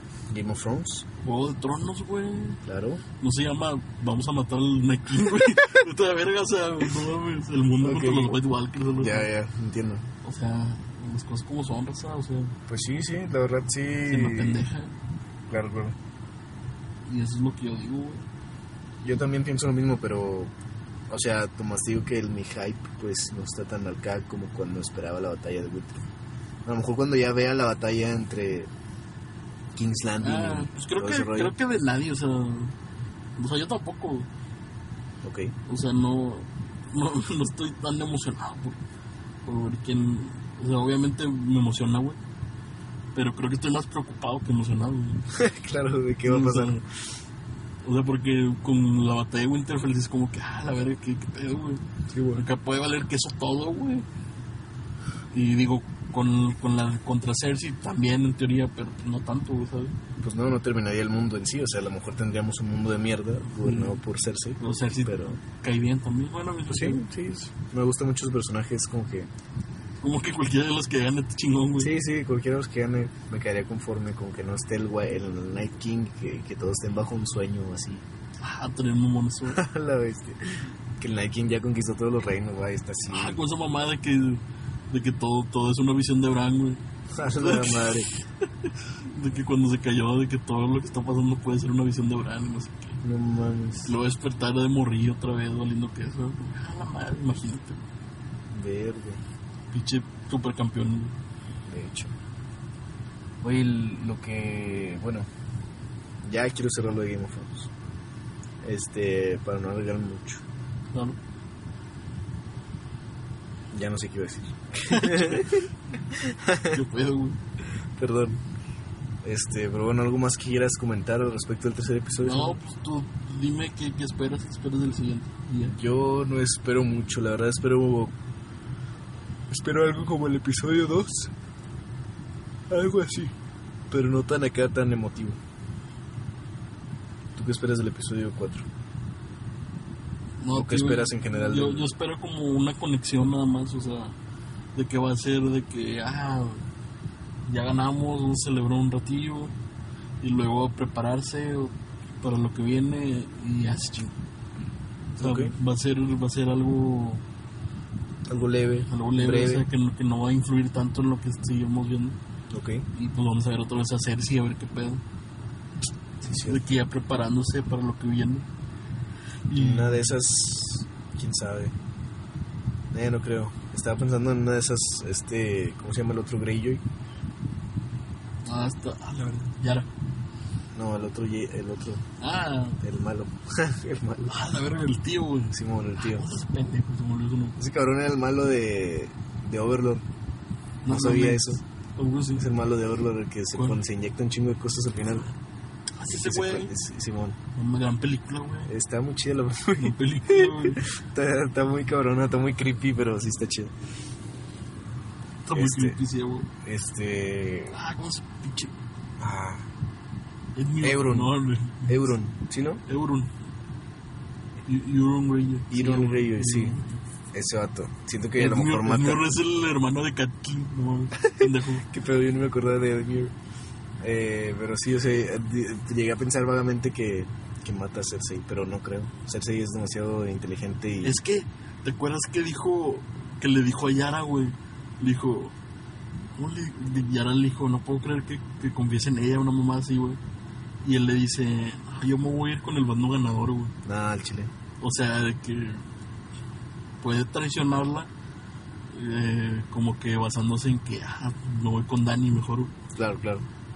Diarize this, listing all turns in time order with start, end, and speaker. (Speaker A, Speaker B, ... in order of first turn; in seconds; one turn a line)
Speaker A: 0.3-1.0
Speaker B: 1.2-2.6
Speaker A: 2.6-3.0
Speaker B: 3.2-9.3
Speaker A: 7.8-8.4
Speaker A: 9.0-10.1
Speaker B: 10.2-12.6
Speaker A: 12.7-14.6
Speaker B: 14.1-14.9
Speaker A: 15.5-15.9
Speaker B: 17.0-18.2
Speaker A: 19.0-20.5
Speaker A: 21.1-26.0
Speaker A: 26.6-28.7
Speaker A: 29.7-31.5
Speaker B: 30.2-32.7
Speaker B: 33.4-34.3
Speaker A: 35.2-35.5
Speaker B: 35.6-38.8
Speaker B: 39.4-42.2
Speaker B: 43.1-45.2
Speaker A: 45.3-46.8
Speaker B: 46.2-46.8
Speaker B: 47.8-54.0
Speaker A: 52.1-52.4
Speaker B: 55.3-60.0
Speaker A: 60.2-65.4
Speaker B: 63.6-64.0
Speaker B: 64.6-67.0
Speaker A: 66.7-69.3
Speaker B: 70.0-71.9
Speaker A: 71.8-78.0
Speaker B: 78.4-79.6
Speaker A: 79.5-83.4
Speaker B: 83.1-86.8
Speaker A: 87.1-88.1
Speaker B: 87.3-88.0
Speaker B: 89.1-93.0
Speaker A: 93.0-94.0
Speaker B: 93.8-97.8
Speaker A: 98.5-99.2
Speaker B: 99.7-101.2
Speaker A: 101.7-102.1
Speaker A: 103.4-105.3
Speaker A: 106.2-107.7
Speaker A: 108.6-110.4
Speaker B: 110.9-111.2
Speaker A: 113.7-116.8
Speaker B: 114.9-115.6
Speaker B: 116.7-117.4
Speaker A: 118.0-118.4
Speaker A: 119.2-122.6
Speaker B: 122.2-125.8
Speaker A: 125.7-128.1
Speaker A: 129.5-131.3
Speaker A: 132.7-133.3
Speaker A: 133.9-135.4
Speaker A: 137.3-138.7
Speaker B: 140.4-144.2
Speaker A: 140.5-141.9
Speaker B: 144.7-146.7
Speaker B: 147.4-149.5
Speaker B: 150.2-154.1
Speaker A: 155.2-155.5
Speaker B: 155.2-157.2
Speaker A: 158.3-159.7
Speaker B: 158.9-162.2
Speaker A: 162.5-162.8
Speaker B: 162.9-165.0
Speaker A: 166.2-166.6
Speaker B: 166.2-168.5
Speaker B: 169.5-170.1
Speaker A: 169.5-171.7
Speaker A: 172.9-176.8
Speaker B: 178.4-179.9
Speaker A: 180.7-182.0
Speaker B: 182.2-182.8
Speaker A: 182.8-184.3
Speaker B: 184.2-187.6
Speaker A: 185.5-186.3
Speaker A: 187.6-190.0
Speaker B: 190.8-192.5
Speaker A: 190.8-191.6
Speaker A: 192.3-195.3
Speaker B: 193.5-193.8
Speaker B: 196.0-196.7
Speaker A: 196.1-197.4
Speaker B: 197.5-198.7
Speaker A: 198.7-203.7
Speaker B: 199.8-200.8
Speaker B: 205.4-206.5
Speaker A: 205.5-206.0
Speaker A: 206.6-207.8
Speaker B: 207.7-208.7
Speaker A: 209.2-209.7
Speaker B: 210.5-212.0
Speaker A: 210.8-211.3
Speaker A: 211.8-212.8
Speaker B: 212.9-213.3
Speaker B: 214.7-217.0
Speaker A: 215.7-216.8
Speaker A: 217.3-219.3
Speaker B: 218.4-221.9
Speaker A: 221.2-223.3
Speaker A: 224.0-231.2
Speaker B: 231.0-235.5
Speaker B: 236.3-240.2
Speaker B: 240.8-243.7
Speaker A: 243.8-244.5
Speaker B: 244.8-245.8
Speaker B: 247.0-248.1
Speaker B: 248.9-252.7
Speaker A: 252.9-253.4